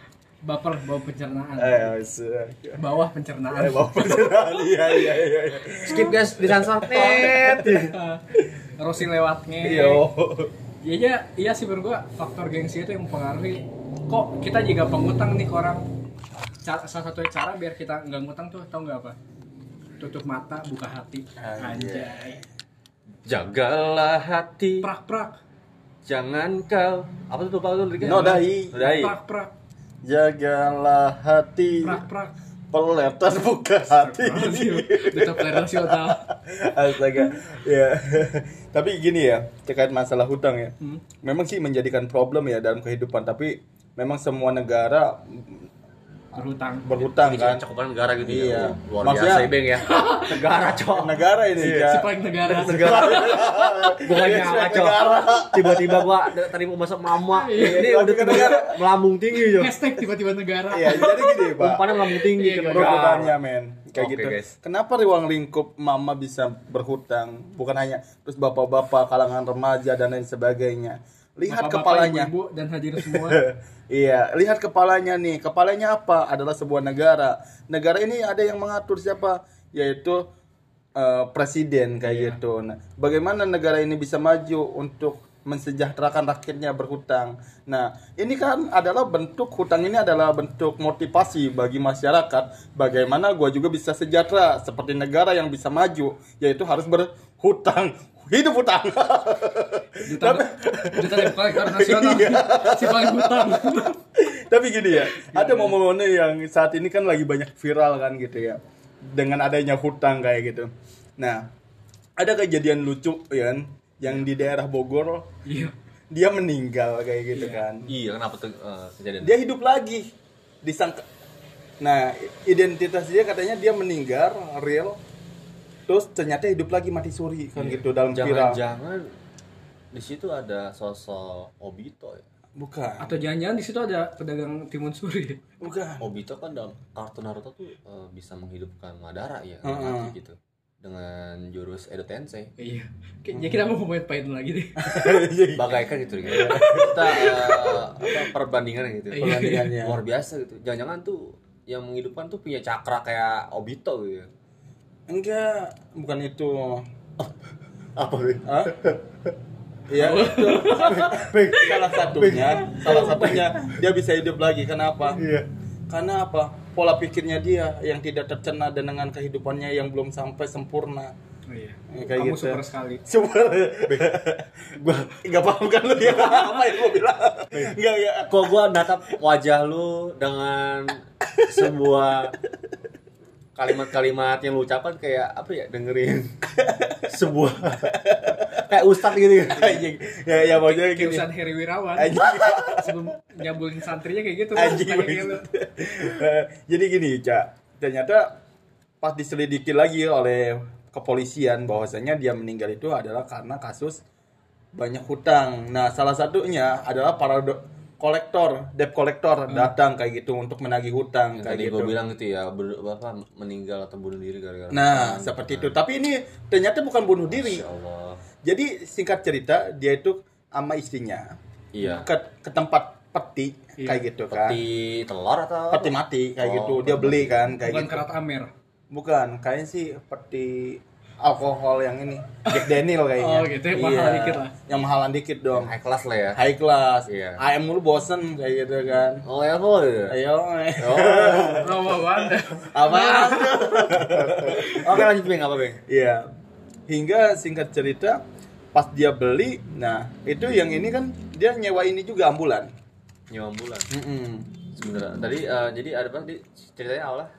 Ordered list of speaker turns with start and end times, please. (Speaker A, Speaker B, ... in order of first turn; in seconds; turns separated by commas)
Speaker A: 0.4-1.9, Speaker B: 1.6-2.8, Speaker A: 2.8-4.5, Speaker B: 3.5-8.6, Speaker C: 5.8-7.9, Speaker A: 7.9-10.0, Speaker B: 9.6-10.5, Speaker A: 10.8-15.8, Speaker A: 16.6-19.2, Speaker A: 20.0-22.4, Speaker B: 21.4-22.4, Speaker C: 23.2-24.9, Speaker A: 24.8-25.4, Speaker C: 26.1-29.1, Speaker B: 28.0-28.7, Speaker A: 28.0-29.5, Speaker B: 30.0-32.0, Speaker A: 31.8-32.3, Speaker B: 32.7-45.7, Speaker A: 33.9-36.3, Speaker A: 46.3-46.9, Speaker B: 46.8-47.6, Speaker C: 47.1-51.2, Speaker B: 48.2-49.5, Speaker A: 49.8-50.4, Speaker B: 50.9-52.1, Speaker A: 51.6-54.0, Speaker C: 52.4-59.8, Speaker B: 52.6-56.3, Speaker A: 57.3-57.9, Speaker B: 57.5-59.0, Speaker A: 59.5-61.5, Speaker B: 60.7-62.0, Speaker C: 61.5-63.3, Speaker A: 62.1-63.2, Speaker B: 62.6-72.3, Speaker C: 64.0-64.5, Speaker A: 71.5-73.4, Speaker B: 73.0-80.3, Speaker B: 81.0-111.5, Speaker A: 82.1-82.4, Speaker A: 100.0-104.0, Speaker A: 105.1-105.8, Speaker B: 112.2-115.3, Speaker A: 115.4-115.7, Speaker B: 116.1-117.9, Speaker A: 117.3-117.6, Speaker C: 117.9-119.3, Speaker B: 119.2-120.1, Speaker B: 120.6-121.0, Speaker B: 121.8-125.0, Speaker B: 125.9-128.6, Speaker C: 127.6-129.1, Speaker C: 129.9-132.2, Speaker B: 132.6-133.2, Speaker A: 133.0-135.4, Speaker B: 135.6-136.0, Speaker C: 136.0-142.5, Speaker B: 139.6-140.1, Speaker A: 142.6-145.1, Speaker B: 143.3-143.7, Speaker B: 144.8-147.8, Speaker C: 145.5-154.3, Speaker A: 146.3-147.7, Speaker A: 149.1-149.7, Speaker B: 149.2-150.0, Speaker B: 155.1-156.8, Speaker C: 157.9-159.0, Speaker B: 158.4-158.9, Speaker B: 159.9-165.2, Speaker A: 160.0-161.2, Speaker C: 160.8-163.8, Speaker C: 165.2-165.4, Speaker B: 165.9-171.1, Speaker A: 171.5-173.0, Speaker B: 171.9-174.6, Speaker C: 174.7-175.2, Speaker B: 175.2-178.9, Speaker C: 178.3-182.3, Speaker B: 181.4-181.7, Speaker C: 183.6-186.3, Speaker B: 186.5-187.1, Speaker C: 187.1-188.0, Speaker B: 187.7-188.8, Speaker C: 188.5-189.8, Speaker B: 189.5-191.3, Speaker A: 190.5-195.4, Speaker B: 191.9-193.0, Speaker B: 194.5-198.4, Speaker B: 199.0-204.0, Speaker B: 204.7-212.0, Speaker C: 211.3-215.8, Speaker B: 214.7-217.6, Speaker C: 217.3-218.2, Speaker B: 218.4-224.6, Speaker C: 221.7-222.1, Speaker A: 223.8-224.0, Speaker C: 224.3-227.5, Speaker B: 225.7-228.1, Speaker A: 227.6-228.5, Speaker B: 228.9-235.7, Speaker A: 232.5-234.5, Speaker C: 235.5-236.4, Speaker B: 236.3-239.2, Speaker C: 237.1-237.4, Speaker C: 239.2-240.2, Speaker B: 240.1-241.9, Speaker C: 240.8-241.8, Speaker A: 241.6-243.9, Speaker B: 242.6-245.2, Speaker C: 244.3-245.8, Speaker A: 244.6-245.0, Speaker B: 245.9-246.3, Speaker B: 246.9-248.2, Speaker B: 248.7-252.7, Speaker C: 253.3-253.9, Speaker B: 253.9-254.5, Speaker C: 254.7-257.3